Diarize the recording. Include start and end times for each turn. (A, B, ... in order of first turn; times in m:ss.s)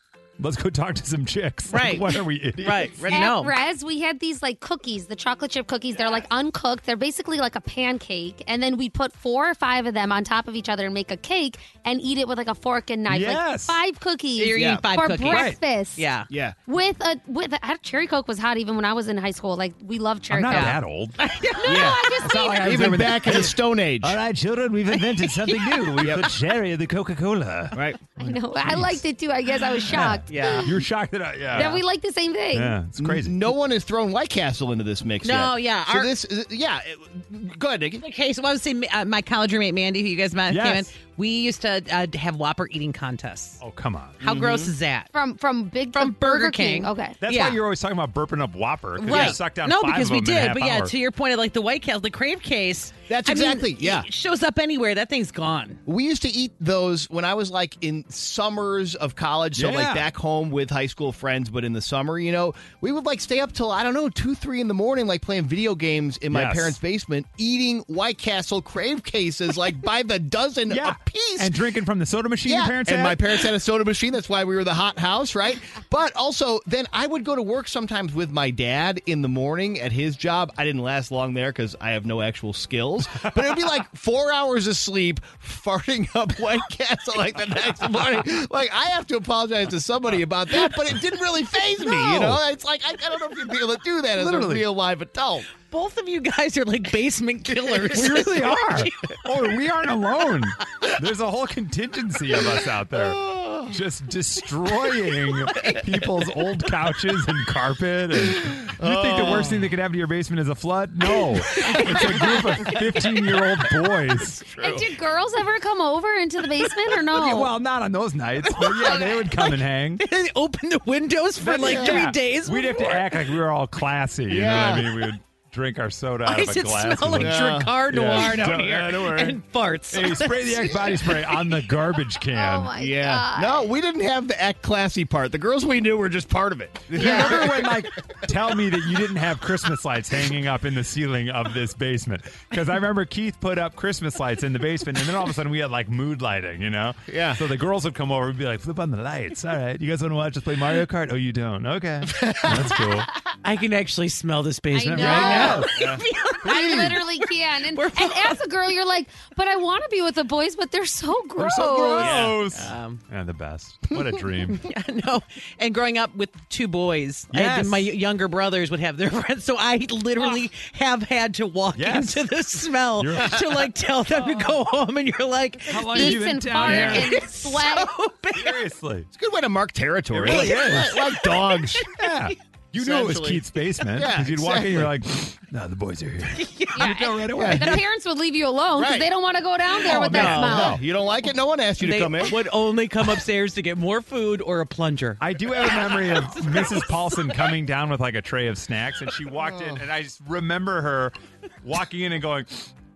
0:00.4-0:03.0 A
0:01.7-0:03.5 B
0:03.1-0:20.8 C
0:13.1-0:13.8 A
0:14.4-0:16.3 B
0:14.5-0:14.8 D
0:15.3-0:15.6 A
0:16.3-0:16.6 D
0:20.3-0:21.2 A
0:20.5-0:22.2 B
0:21.6-0:22.9 C
0:21.7-0:22.1 D
0:22.2-0:29.0 A
0:22.6-0:24.2 D
0:24.9-0:26.1 B
0:26.0-0:26.3 D
0:27.8-0:28.0 D
0:28.2-0:30.7 C
0:29.9-0:31.8 A
0:30.3-0:30.7 B
0:31.5-0:32.8 C
0:32.5-0:33.4 A
0:33.0-0:38.1 D
0:35.2-0:36.1 B
0:38.0-0:43.6 B
0:40.5-0:40.9 A
0:43.6-0:44.2 A
0:44.2-0:45.1 B
0:44.2-0:44.7 D
0:45.1-0:47.2 C
0:45.9-0:47.6 B
0:47.2-0:50.9 A
0:49.0-0:55.8 B
0:49.1-0:49.4 D
0:53.1-0:54.1 D
0:55.9-1:11.6 D
0:59.6-1:00.1 A
1:06.3-1:06.8 A
1:10.7-1:13.2 A
1:12.5-1:35.5 D
1:31.9-1:32.4 A
1:34.2-1:34.6 A
1:35.6-1:39.2 B
1:37.9-1:54.4 A
1:42.9-1:43.8 D
1:45.5-1:45.8 B
1:48.8-1:49.7 D
1:51.6-1:52.0 B
1:51.6-1:52.7 D
1:54.4-1:54.8 D
1:54.6-1:57.5 C
1:57.1-2:00.0 A
1:58.5-1:59.4 B
2:00.0-2:03.2 B
2:01.4-2:09.4 A
2:01.6-2:02.0 D
2:04.3-2:05.1 D
2:06.3-2:11.2 B
2:07.2-2:08.6 D
2:09.9-2:12.7 A
2:12.3-2:13.7 C
2:12.7-2:18.0 D
2:17.0-2:33.1 A
2:27.1-2:27.4 D
2:32.1-2:32.8 D
2:33.4-2:38.4 B
2:34.7-2:42.2 C
2:35.0-2:35.9 A
2:35.8-2:36.0 D
2:36.4-2:37.0 A
2:41.4-2:44.6 A
2:41.9-2:42.5 D
2:42.5-2:43.0 B
2:44.6-2:58.6 B
2:47.3-2:47.9 A
2:51.8-2:52.3 A
2:53.0-2:54.5 A
2:55.7-2:57.2 A
2:55.8-2:57.9 C
2:58.4-2:59.1 A
2:59.1-3:01.9 D
3:00.1-3:01.0 A
3:00.3-3:02.1 B
3:01.9-3:07.8 A
3:02.8-3:03.4 D
3:04.0-3:04.9 D
3:06.4-3:07.0 B
3:06.7-3:10.8 C
3:07.4-3:07.8 D
3:08.8-3:09.1 D
3:09.8-3:10.8 B
3:09.9-3:12.4 D
3:09.9-3:10.8 A
3:11.8-3:16.9 B
3:15.2-3:22.7 A